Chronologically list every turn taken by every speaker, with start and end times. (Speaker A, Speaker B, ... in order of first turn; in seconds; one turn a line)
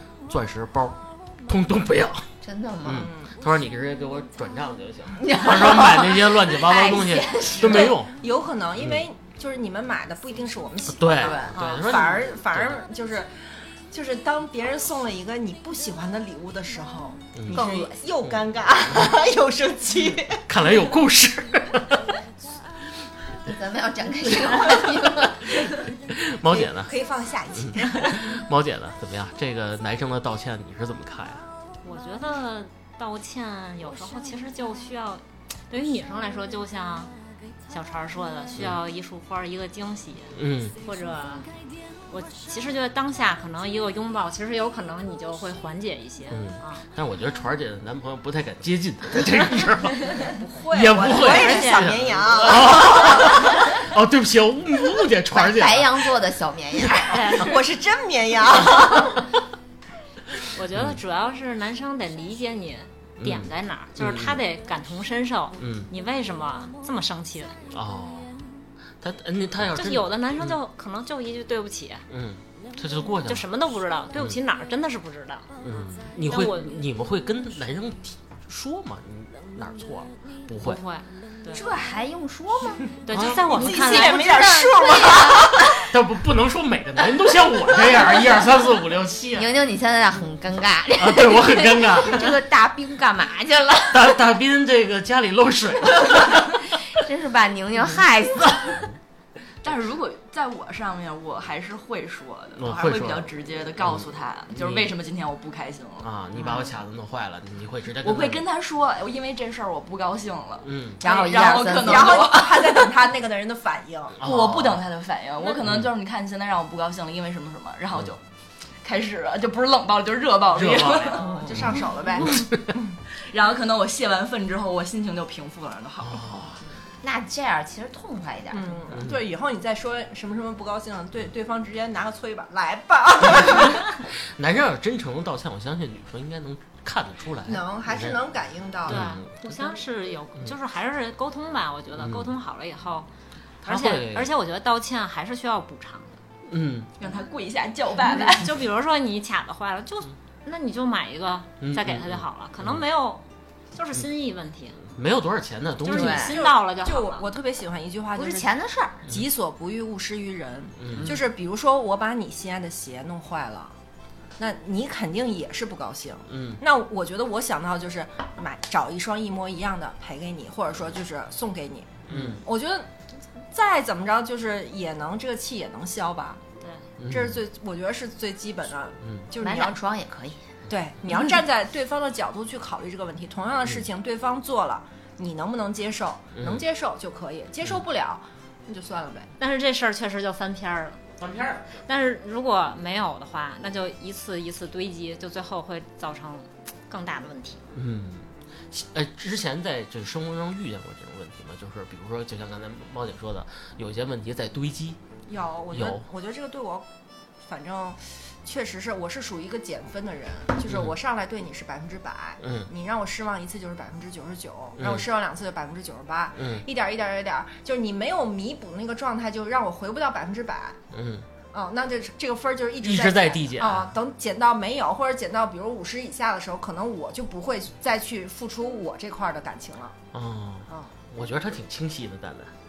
Speaker A: 0.3-2.3
Speaker B: 2.4-3.1
Speaker A: 2.8-8.1
Speaker C: 2.9-3.3
Speaker B: 5.2-8.0
Speaker C: 7.6-13.3
Speaker A: 10.9-12.8
Speaker B: 11.2-11.7
Speaker C: 13.9-20.4
Speaker A: 17.4-17.6
Speaker B: 17.5-18.0
Speaker A: 20.5-22.1
Speaker B: 23.4-25.6
Speaker A: 26.1-26.9
Speaker C: 26.5-28.4
Speaker A: 27.6-31.4
Speaker D: 31.8-37.1
Speaker D: 37.7-41.5
Speaker A: 40.3-40.8
Speaker D: 42.1-46.8
Speaker A: 46.3-56.1
Speaker C: 50.1-53.6
Speaker D: 51.0-51.9
Speaker B: 55.3-57.4
Speaker D: 57.1-57.6
Speaker C: 57.4-59.3
Speaker D: 60.5-67.6
Speaker A: 60.7-61.0
Speaker A: 63.2-64.4
Speaker A: 65.6-65.9
Speaker A: 67.7-68.3
Speaker A: 69.0-70.6
Speaker D: 69.7-72.1
Speaker A: 72.1-73.5
Speaker D: 73.2-75.5
Speaker A: 75.6-80.8
Speaker D: 76.3-76.7
Speaker D: 80.6-81.7
Speaker B: 81.5-82.9
Speaker D: 83.0-84.8
Speaker A: 83.1-83.7
Speaker C: 83.5-85.8
Speaker B: 84.4-85.5
Speaker A: 85.9-89.5
Speaker B: 89.4-94.2
Speaker A: 91.0-92.4
Speaker A: 93.9-96.5
Speaker B: 96.9-98.9
Speaker E: 99.6-106.1
Speaker A: 102.6-105.0
Speaker A: 106.0-108.4
Speaker B: 106.3-106.8
Speaker E: 108.0-112.7
Speaker A: 110.6-111.0
Speaker B: 111.0-112.8
Speaker C: 111.2-114.2
Speaker A: 114.2-114.8
Speaker E: 114.2-118.2
Speaker A: 115.6-115.9
Speaker E: 118.8-121.4
Speaker A: 120.5-122.6
Speaker C: 121.2-123.0
Speaker B: 121.3-121.8
Speaker E: 123.2-126.3
Speaker A: 126.0-126.6
Speaker B: 127.0-129.0
Speaker C: 128.5-133.8
Speaker A: 134.1-138.2
Speaker C: 137.4-139.1
Speaker A: 138.9-139.5
Speaker D: 138.9-143.1
Speaker A: 142.0-142.3
Speaker A: 143.6-144.3
Speaker D: 143.6-146.2
Speaker A: 146.5-146.9
Speaker E: 147.0-148.6
Speaker D: 148.2-154.8
Speaker A: 151.6-152.8
Speaker A: 154.9-156.3
Speaker D: 155.8-157.3
Speaker B: 155.9-156.4
Speaker C: 156.1-158.5
Speaker B: 158.2-159.1
Speaker C: 159.1-163.8
Speaker A: 160.8-161.1
Speaker C: 164.4-172.9
Speaker A: 166.3-166.6
Speaker A: 172.1-172.4
Speaker C: 173.4-176.4
Speaker A: 177.0-177.4
Speaker C: 177.1-179.8
Speaker B: 179.4-180.5
Speaker C: 180.7-189.3
Speaker A: 186.4-186.6
Speaker D: 189.4-191.0
Speaker A: 191.2-191.8
Speaker D: 191.8-197.7
Speaker A: 197.7-205.0
Speaker C: 205.3-206.9
Speaker A: 205.7-206.1
Speaker C: 207.4-220.8
Speaker A: 210.7-210.9
Speaker A: 212.4-212.7
Speaker A: 214.8-215.1
Speaker A: 216.4-216.6
Speaker A: 220.9-221.3
Speaker C: 221.5-229.9
Speaker A: 222.8-223.9
Speaker A: 230.1-232.5